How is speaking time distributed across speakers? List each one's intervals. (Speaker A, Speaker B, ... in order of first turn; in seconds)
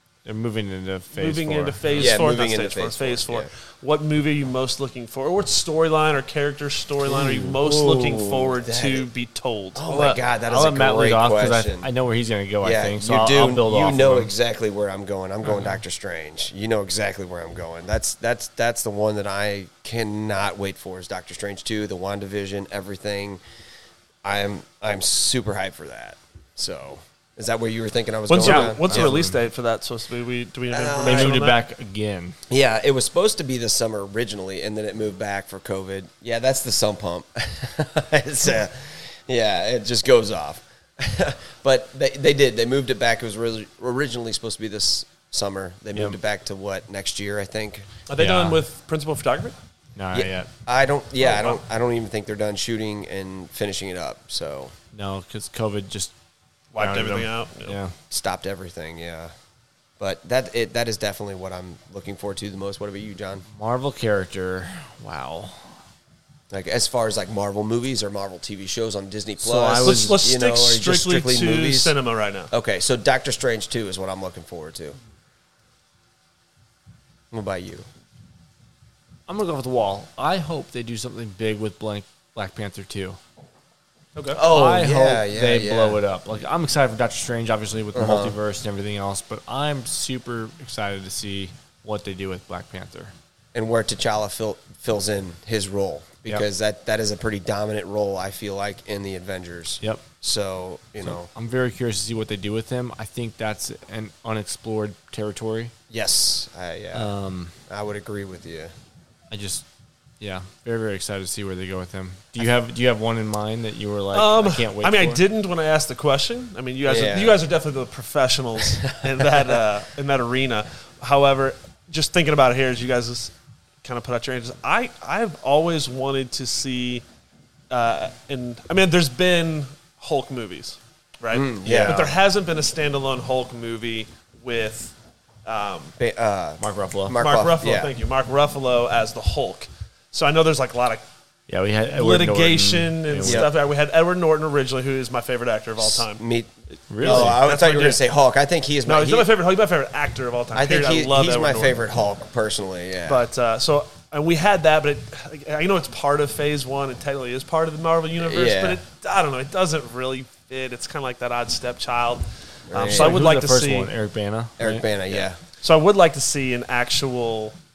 Speaker A: 0.2-2.2, 7.1-8.5, 9.9-14.3, 28.4-29.4, 31.0-32.4, 48.2-48.6, 50.0-50.5, 54.9-56.1, 56.8-58.0, 63.5-65.7, 69.4-70.2, 79.3-83.2, 84.4-93.1, 99.8-100.1, 101.0-105.7, 106.9-107.5, 109.3-109.7, 110.2-115.2, 131.7-132.0, 136.6-137.2, 141.5-143.5, 146.9-147.4, 162.8-164.8
Speaker B: 1.1-9.8, 28.3-31.6, 48.1-49.5, 51.2-51.6, 56.7-57.8, 69.8-72.5, 84.2-84.4, 114.1-127.0, 127.7-134.9, 135.5-135.9, 137.2-141.0, 141.9-146.2, 147.0-148.0, 148.8-151.8, 153.1-163.9, 165.1-167.6
Speaker C: 1.9-3.5, 8.5-9.1, 9.8-11.9, 12.6-23.4, 24.2-29.3, 30.7-31.4, 32.5-47.9, 50.1-54.8, 58.1-59.3, 60.0-63.5, 66.5-71.9, 72.5-75.0, 77.3-77.9, 84.3-86.0, 87.9-88.4, 93.5-101.3, 105.9-107.1, 107.7-108.7, 116.9-117.4, 131.3-132.1, 136.0-137.9, 143.2-143.5, 145.8-149.3, 150.5-153.2, 158.2-158.8, 162.7-163.2, 164.6-165.4